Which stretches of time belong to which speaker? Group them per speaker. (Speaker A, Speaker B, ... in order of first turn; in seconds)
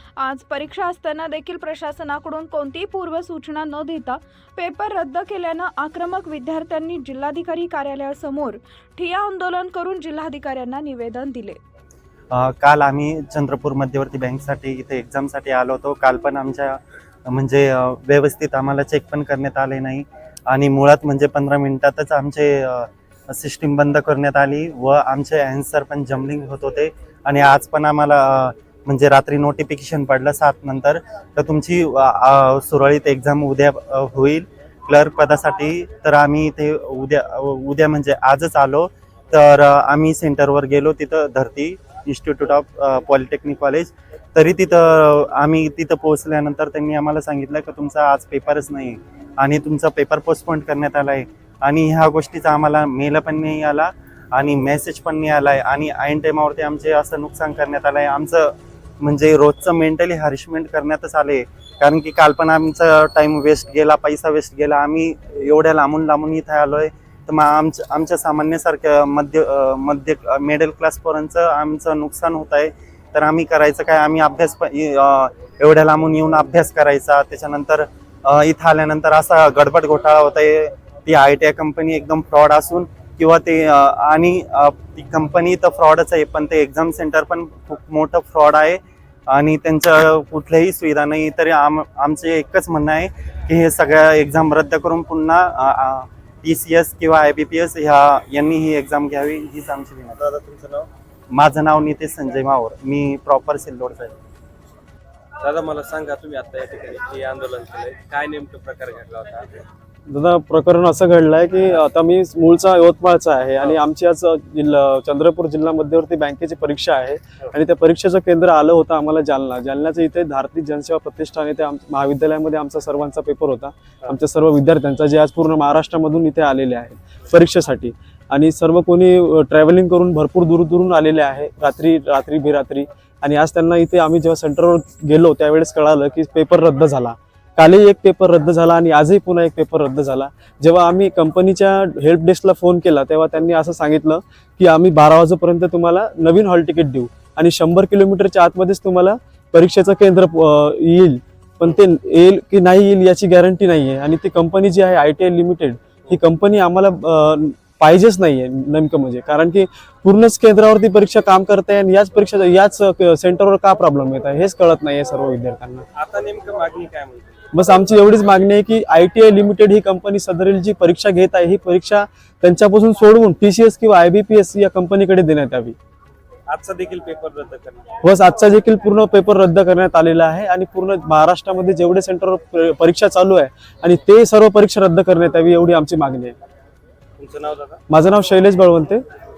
Speaker A: 0.2-11.6
Speaker B: 12.3-100.2, 101.3-104.2
Speaker C: 100.2-100.9, 105.4-109.6, 165.9-167.4, 176.5-177.9, 187.2-187.8
Speaker D: 110.1-165.8, 167.5-175.8, 178.0-186.3, 187.9-189.0